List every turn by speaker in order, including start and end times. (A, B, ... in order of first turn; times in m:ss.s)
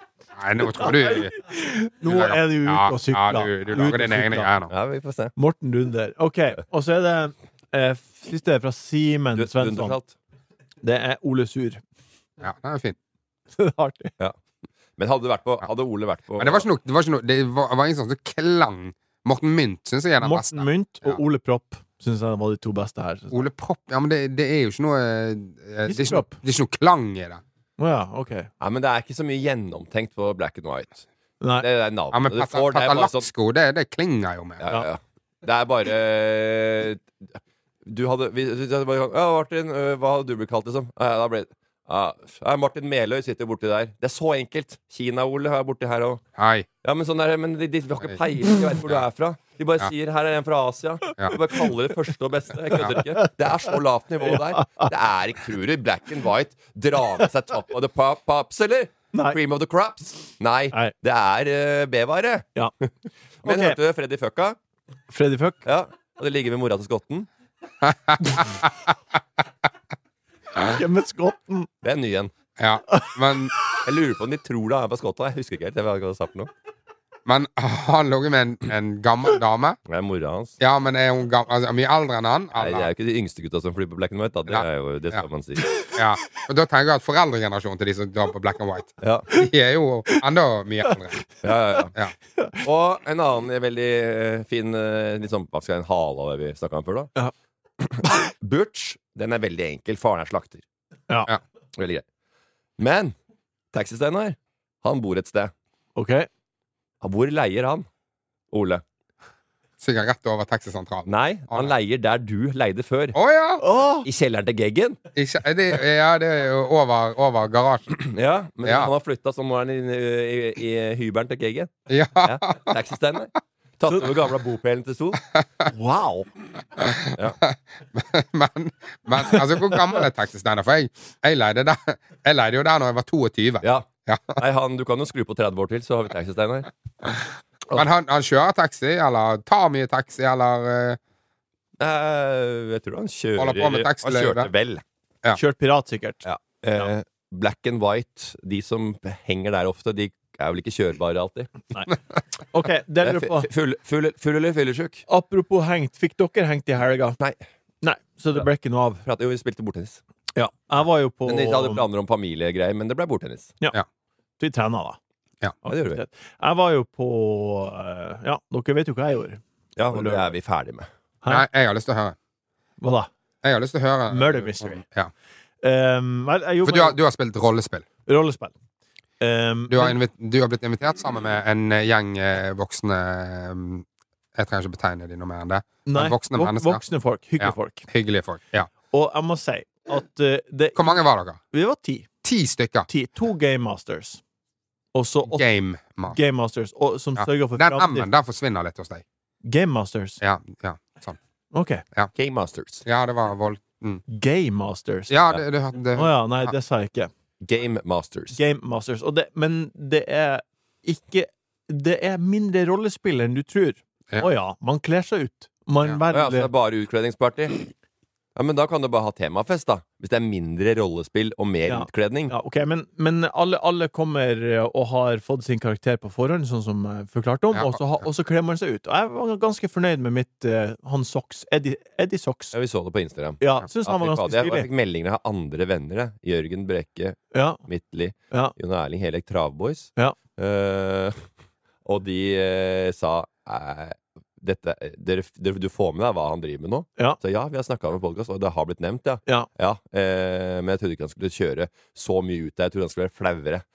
0:00.4-0:01.3 A
0:00.7-0:04.5 B
0:02.0-0:04.7 A
0:04.7-0:05.3 C
0:05.4-0:10.0 B
0:09.4-0:10.1 C
0:10.8-0:11.8 B
0:12.4-0:13.0 A
0:13.5-0:14.1 B
0:15.0-0:16.6 C
0:16.4-0:21.2 A
0:20.2-0:23.3 B
0:23.3-0:27.4 A
0:25.8-0:26.4 B
0:27.8-0:28.5 B
0:28.6-0:31.0 C
0:31.4-0:31.6 B
0:31.6-0:33.3 C
0:32.1-0:34.8 A
0:34.6-0:46.2 C
0:46.4-0:46.7 A
0:46.8-1:02.9 C
0:51.4-0:51.6 B
0:54.2-0:54.9 B
0:59.1-0:59.4 B
1:03.4-1:04.6 C
1:03.4-1:03.8 B
1:05.1-1:05.6 B
1:05.6-1:07.3 C
1:07.8-1:08.7 A
1:10.6-1:11.7 B
1:11.8-1:12.3 C
1:12.6-1:13.5 A
1:12.9-1:13.2 B
1:13.8-1:16.5 C
1:17.2-1:19.8 A
1:19.9-1:20.6 C
1:20.6-1:22.9 A
1:22.6-1:25.7 C
1:24.5-1:25.2 A
1:25.9-1:31.2 A
1:29.0-1:29.3 C
1:31.4-1:31.9 C
1:32.4-1:32.6 B
1:32.6-1:37.1 C
1:37.8-1:40.6 C
1:41.8-1:42.0 C
1:42.8-1:43.1 C
1:43.7-1:45.5 C
1:46.0-1:46.3 B
1:47.0-1:47.9 C
1:48.5-1:48.8 C
1:49.8-1:51.7 A
1:51.0-1:53.2 C
1:53.1-1:53.6 A
1:53.6-1:54.1 B
1:54.0-1:55.0 C
1:55.2-1:57.9 A
1:57.9-2:01.7 C
1:58.6-1:58.9 A
2:01.9-2:02.7 A
2:02.2-2:05.2 C
2:05.7-2:06.3 B
2:06.8-2:14.4 A
2:14.4-2:16.7 C
2:17.7-2:21.0 A
2:21.8-2:24.8 C
2:23.4-2:24.5 A
2:25.3-2:26.2 B
2:26.2-2:31.7 C
2:32.5-2:33.5 B
2:33.0-2:35.0 C
2:35.1-2:37.2 B
2:37.8-2:39.0 B
2:39.0-2:40.0 C
2:40.3-2:41.8 B
2:41.2-2:43.5 C
2:44.4-2:45.0 B
2:45.6-2:49.4 B
2:45.7-2:46.0 C
2:49.8-2:50.9 C
2:49.9-2:50.3 B
2:51.3-2:52.2 A
2:52.8-2:53.1 B
2:53.4-2:55.1 A
2:54.1-2:54.8 B
2:55.6-2:57.0 B
2:56.6-2:57.8 A
2:58.0-2:58.5 B
2:59.2-3:00.0 B
2:59.7-3:06.8 A
3:05.8-3:07.9 B
3:07.4-3:08.7 A
3:08.9-3:11.0 B
3:10.8-3:11.4 A
3:11.5-3:12.1 B
3:12.2-3:12.9 A
3:12.9-3:14.2 B
3:14.9-3:15.4 B
3:15.3-3:16.2 A
3:16.1-3:18.1 B
3:17.2-3:19.0 A
3:19.4-3:20.2 B
3:20.2-3:21.2 A
3:21.5-3:21.8 B
3:22.1-3:22.8 C
3:22.8-3:24.0 A
3:24.1-3:25.1 B
3:25.1-3:26.1 A
3:25.9-3:27.1 B
3:27.4-3:28.4 C
3:28.3-3:36.5 B
3:36.1-3:37.7 C
3:38.4-3:42.3 C
3:41.7-3:52.5 B
3:47.5-3:47.8 A
3:52.5-4:01.2 C
3:53.4-3:54.6 B
3:57.3-3:57.6 B
4:01.8-4:13.6 C